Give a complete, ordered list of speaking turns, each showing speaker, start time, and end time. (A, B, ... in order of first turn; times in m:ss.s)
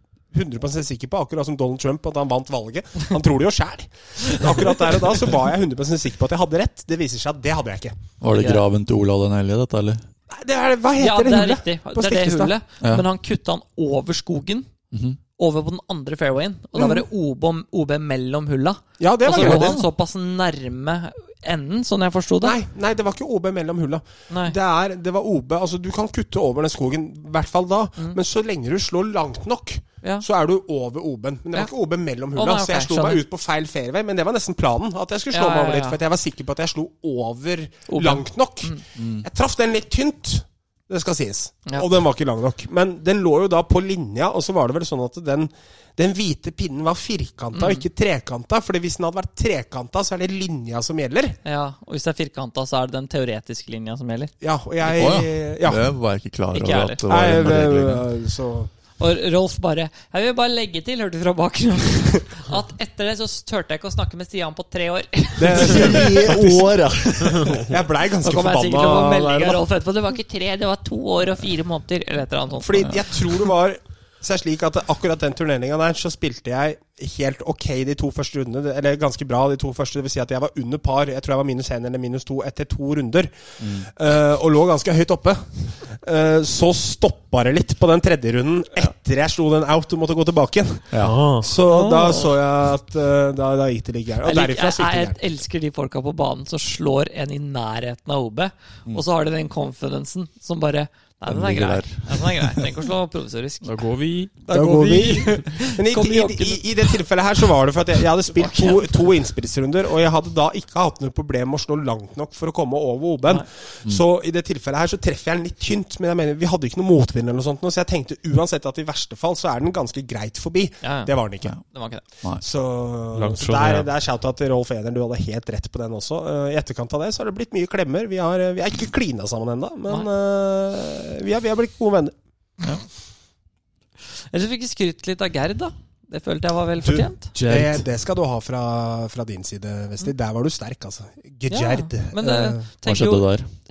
0:00.3-0:08.0 A
0:08.2-0:10.0 B
0:08.4-0:08.6 C
0:10.3-0:12.5 A
0:11.0-0:14.7 C
0:12.8-0:13.1 B
0:14.9-0:15.2 B
0:15.4-0:22.6 C
0:16.8-0:17.0 A
0:19.0-0:19.8 A
0:19.3-0:19.9 B
0:22.4-0:51.4 A
0:24.3-0:24.6 C
0:32.4-0:33.2 C
0:35.3-0:36.0 C
0:37.9-0:38.8 C
0:39.0-0:39.3 B
0:47.5-0:47.8 C
0:51.4-0:54.3 C
0:54.4-0:55.8 A
0:54.8-0:58.0 B
0:56.5-0:57.0 C
0:57.1-0:58.7 A
0:59.0-1:06.4 C
1:05.4-1:09.6 A
1:05.6-1:07.4 B
1:08.2-1:13.0 C
1:12.6-1:35.3 A
1:23.6-1:23.9 B
1:30.9-1:31.2 B
1:31.0-1:31.5 D
1:31.6-1:32.3 C
1:34.2-1:43.8 C
1:41.3-1:42.6 B
1:43.6-1:44.4 D
1:44.4-1:47.0 C
1:44.5-2:01.6 A
1:48.3-1:49.1 C
2:00.8-2:02.0 C
2:02.4-2:12.1 A
2:03.1-2:03.9 D
2:14.3-2:17.3 C
2:16.8-2:22.7 A
2:17.4-2:17.8 D
2:21.5-2:23.3 C
2:22.8-2:23.5 B